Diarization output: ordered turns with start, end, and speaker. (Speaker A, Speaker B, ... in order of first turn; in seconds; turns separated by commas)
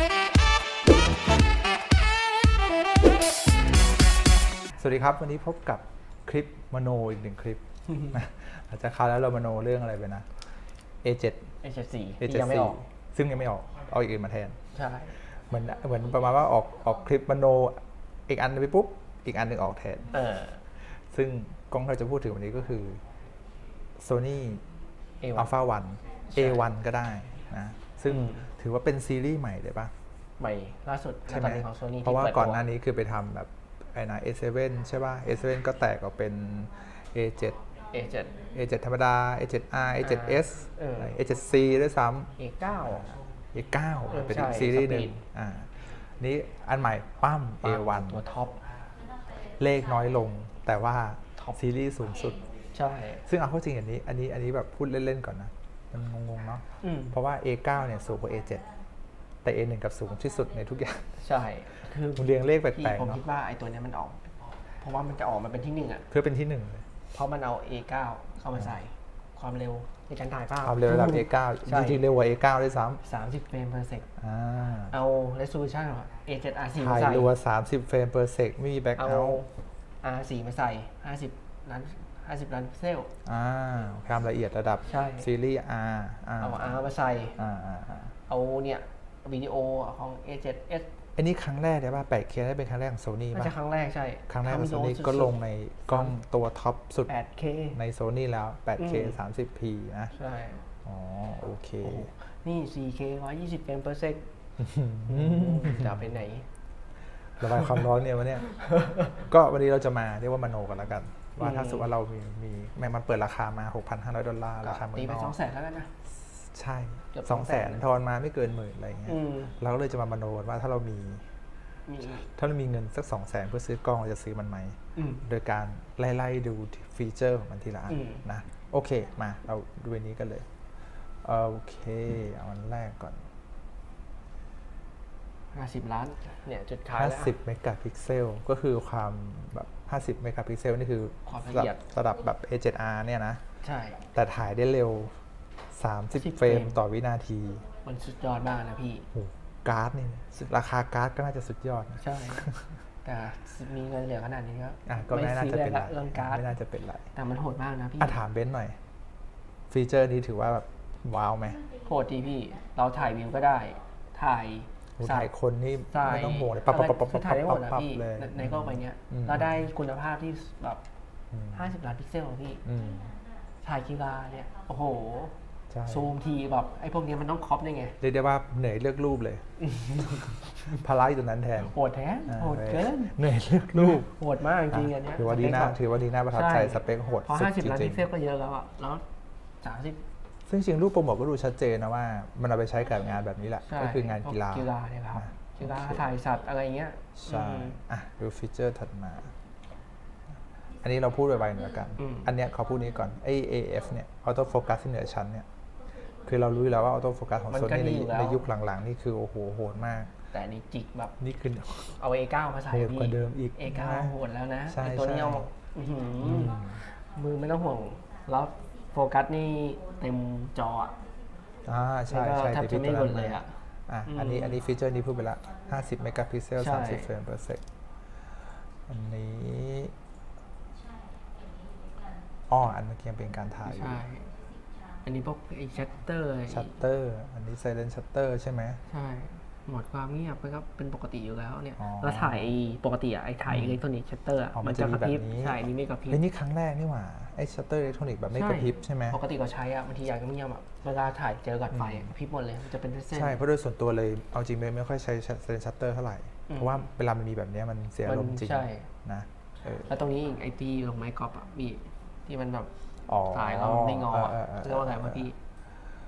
Speaker A: 4.8-10.3, Speaker A: 11.0-11.6, Speaker B: 11.6-12.8, Speaker A: 12.2-14.6, Speaker B: 14.7-15.2, Speaker A: 15.2-20.2, Speaker B: 20.1-20.6, Speaker A: 20.8-23.0, Speaker A: 24.0-24.6, Speaker B: 25.2-25.5, Speaker A: 25.4-29.9, Speaker B: 26.3-26.7, Speaker B: 28.1-28.5, Speaker B: 30.4-32.7, Speaker A: 31.3-37.7, Speaker B: 37.9-38.4, Speaker A: 38.4-48.2, Speaker B: 40.0-41.2, Speaker B: 42.4-43.2, Speaker B: 44.1-45.2, Speaker B: 47.6-48.6, Speaker A: 49.4-52.5, Speaker B: 52.7-53.3, Speaker A: 53.2-58.7, Speaker B: 56.8-57.2, Speaker A: 59.4-61.3, Speaker B: 61.2-66.1, Speaker A: 62.1-63.2, Speaker A: 66.1-66.9, Speaker B: 67.1-72.0, Speaker A: 70.6-73.0, Speaker B: 73.0-74.1, Speaker A: 74.2-75.0, Speaker B: 74.9-77.3, Speaker A: 76.8-79.4, Speaker B: 79.0-83.1, Speaker A: 83.2-86.8, Speaker B: 84.9-85.3, Speaker B: 86.4-87.4, Speaker A: 87.4-88.2, Speaker B: 88.3-90.9, Speaker A: 91.2-93.6, Speaker B: 93.3-95.4, Speaker A: 94.3-97.1, Speaker B: 95.9-96.1, Speaker B: 97.1-97.8, Speaker A: 97.7-100.2, Speaker B: 98.8-99.2, Speaker B: 100.2-100.7, Speaker A: 100.8-102.1, Speaker B: 101.8-104.3, Speaker A: 104.6-106.1, Speaker B: 105.1-106.5, Speaker A: 107.3-115.4, Speaker B: 108.6-109.1, Speaker B: 111.4-111.9, Speaker B: 114.6-116.0, Speaker A: 116.0-121.3, Speaker B: 117.1-117.9, Speaker B: 119.1-119.5, Speaker B: 121.9-122.3, Speaker A: 122.0-133.3, Speaker B: 125.0-125.2, Speaker B: 127.9-128.2, Speaker B: 135.5-137.3, Speaker A: 136.9-143.4, Speaker B: 141.3-141.8, Speaker B: 143.6-144.0, Speaker A: 144.1-145.2, Speaker A: 145.7-147.7, Speaker B: 146.1-146.8, Speaker B: 147.8-149.1, Speaker A: 149.1-152.8, Speaker B: 152.0-152.5, Speaker B: 153.0-156.6, Speaker A: 154.9-157.1, Speaker B: 157.1-158.2, Speaker A: 158.0-158.8, Speaker A: 159.7-161.7, Speaker B: 161.8-165.3, Speaker A: 165.0-169.7, Speaker B: 165.9-170.8, Speaker A: 171.3-171.7, Speaker B: 171.5-172.7, Speaker A: 172.7-173.2, Speaker B: 173.6-178.0, Speaker A: 175.7-176.1, Speaker A: 178.0-179.5, Speaker B: 179.6-180.6, Speaker A: 180.6-181.8, Speaker B: 181.6-183.2, Speaker A: 182.3-188.1, Speaker B: 183.7-189.1, Speaker B: 189.6-190.0, Speaker A: 190.5-196.1, Speaker B: 193.6-197.8, Speaker A: 197.2-199.3, Speaker A: 200.8-205.5, Speaker B: 202.0-202.3, Speaker A: 206.1-210.1, Speaker B: 207.5-208.5, Speaker B: 210.3-211.2, Speaker A: 211.2-212.0, Speaker B: 211.9-221.0, Speaker A: 212.7-214.1, Speaker A: 214.7-215.5, Speaker A: 216.2-216.8, Speaker A: 221.7-227.7, Speaker B: 222.1-224.6, Speaker B: 226.6-227.1, Speaker A: 228.8-229.9, Speaker A: 232.5-234.1, Speaker B: 233.7-234.3, Speaker B: 235.0-236.8, Speaker A: 236.5-238.8, Speaker B: 238.9-246.2, Speaker A: 241.8-242.5, Speaker A: 243.5-243.8, Speaker A: 244.5-249.2, Speaker B: 248.3-253.4, Speaker A: 251.7-252.1, Speaker A: 253.1-259.9, Speaker B: 256.5-256.9, Speaker B: 258.1-258.9, Speaker B: 259.9-262.7, Speaker A: 263.1-265.3, Speaker B: 263.3-265.4